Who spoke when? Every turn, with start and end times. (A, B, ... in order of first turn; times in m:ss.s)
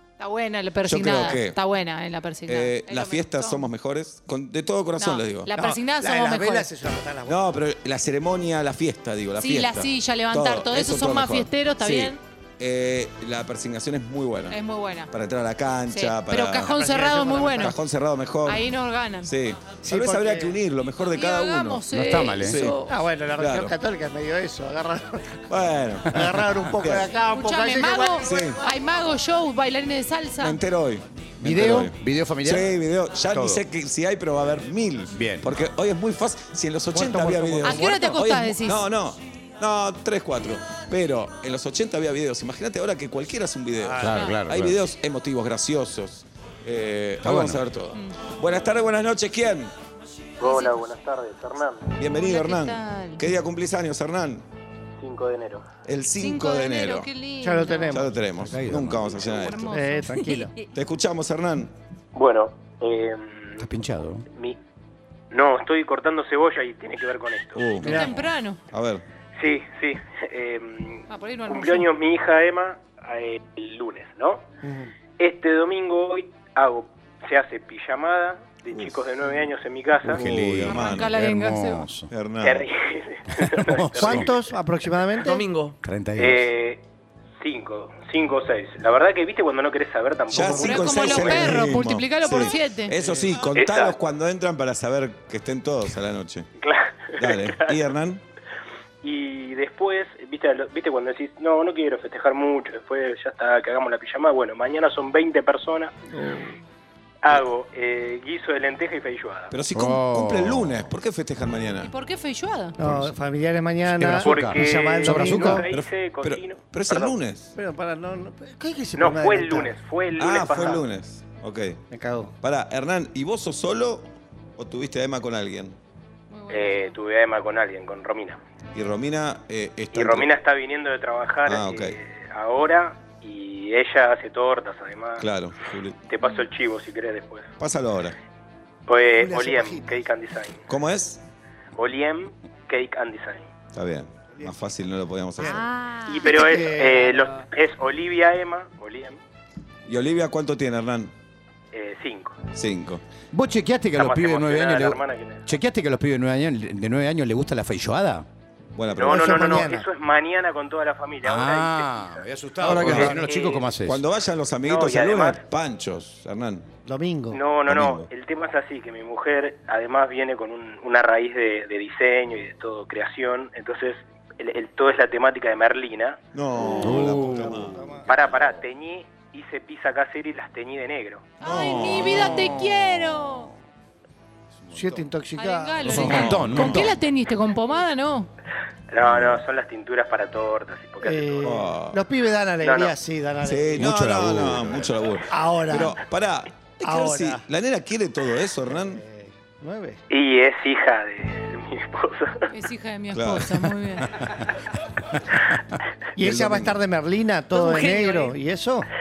0:00.2-0:03.6 A
0:00.8-0:01.6 B
0:02.5-0:05.5 B
0:05.0-0:06.7 A
0:05.6-0:07.4 C
0:07.3-0:14.6 B
0:09.4-0:12.2 A
0:14.5-0:15.1 A
0:15.1-0:16.8 B
0:15.9-0:17.8 A
0:16.7-0:17.8 C
0:17.6-0:18.7 B
0:18.4-0:19.3 A
0:19.2-0:21.8 B
0:19.8-0:20.6 C
0:21.1-0:23.0 A
0:21.9-0:22.6 D
0:22.4-0:22.8 B
0:22.9-0:25.4 C
0:23.4-0:23.8 B
0:25.5-0:27.1 B
0:26.1-0:28.4 C
0:27.2-0:30.6 A
0:28.2-0:28.6 B
0:30.4-0:49.7 B
0:31.4-0:32.7 D
0:33.3-0:33.6 D
0:35.1-0:35.5 D
0:36.9-0:38.2 C
0:37.6-0:38.8 A
0:43.8-0:44.3 C
0:44.0-0:44.8 D
0:47.2-0:47.6 D
0:50.4-0:50.7 A
0:50.4-0:51.9 E
0:52.0-0:54.5 B
0:52.0-0:53.2 A
0:55.0-0:55.7 E
0:55.8-0:57.1 B
0:56.2-0:58.0 A
0:57.4-0:58.2 C
0:57.9-0:59.7 B
0:58.4-0:59.1 D
0:59.2-1:00.7 A
0:59.6-1:00.5 C
1:00.7-1:01.7 B
1:02.1-1:03.6 E
1:03.6-1:04.2 D
1:04.3-1:04.6 E
1:05.3-1:07.7 E
1:07.5-1:09.0 B
1:07.8-1:08.2 C
1:07.8-1:08.6 A
1:09.4-1:14.4 E
1:11.1-1:11.9 A
1:14.6-1:14.9 C
1:15.2-1:20.2 E
1:20.0-1:22.1 D
1:20.1-1:21.1 B
1:20.7-1:21.9 A
1:22.1-1:22.7 B
1:22.4-1:24.4 E
1:23.4-1:24.3 D
1:24.0-1:25.5 C
1:25.2-1:26.8 E
1:25.8-1:26.4 D
1:27.4-1:31.6 E
1:30.3-1:36.5 B
1:30.3-1:30.6 C
1:30.5-1:32.9 A
1:33.5-1:34.0 E
1:36.6-1:37.8 E
1:37.2-1:38.2 B
1:39.0-1:46.0 E
1:46.1-1:46.5 C
1:47.2-1:49.5 E
1:49.5-1:51.9 B
1:49.7-1:50.8 D
1:51.8-1:52.8 A
1:52.8-1:55.7 C
1:52.8-1:53.1 B
1:54.0-1:55.6 D
1:54.2-1:57.2 E
1:55.7-1:57.5 B
1:57.6-1:59.7 C
1:59.0-2:00.8 E
2:00.2-2:01.8 B
2:01.9-2:02.3 C
2:02.4-2:05.8 B
2:06.3-2:07.0 A
2:06.5-2:08.4 E
2:08.7-2:10.3 B
2:09.9-2:15.3 E
2:11.5-2:12.0 B
2:15.2-2:16.0 B
2:16.1-2:17.5 E
2:17.6-2:18.2 B
2:18.9-2:20.7 E
2:19.2-2:20.0 C
2:20.7-2:21.2 B
2:21.8-2:23.5 E
2:23.7-2:25.6 B
2:25.4-2:25.7 C
2:25.5-2:26.3 A
2:26.1-2:29.2 E
2:26.2-2:27.3 C
2:29.9-2:31.1 B
2:31.7-2:32.4 E
2:32.5-2:33.0 B
2:33.3-2:38.3 D
2:34.0-2:35.5 E
2:38.8-2:39.6 B
2:38.9-2:43.7 E
2:39.0-2:39.9 C
2:41.2-2:44.0 D
2:42.6-2:43.2 B
2:43.8-2:46.7 B
2:44.6-2:45.4 E
2:46.9-2:47.4 C
2:47.3-2:56.2 E
2:47.7-2:48.1 B
2:56.3-2:58.0 B
2:56.6-2:58.2 C
2:56.8-2:57.8 D
2:58.1-3:01.3 E
3:01.4-3:02.6 B
3:01.4-3:03.5 A
3:02.1-3:02.6 C
3:04.7-3:05.0 D
3:04.7-3:06.4 C
3:05.4-3:08.3 A
3:05.8-3:07.0 D
3:05.9-3:06.9 B
3:08.9-3:11.6 E
3:11.0-3:13.9 C
3:11.4-3:12.0 B
3:12.6-3:13.0 E
3:13.4-3:19.0 B
3:13.8-3:14.9 D
3:15.3-3:16.0 C
3:16.8-3:17.4 C
3:18.7-3:20.0 C
3:20.1-3:22.5 E
3:22.5-3:24.2 A
3:23.1-3:23.6 B
3:26.2-3:28.9 C
3:26.2-3:26.8 B
3:27.5-3:28.3 A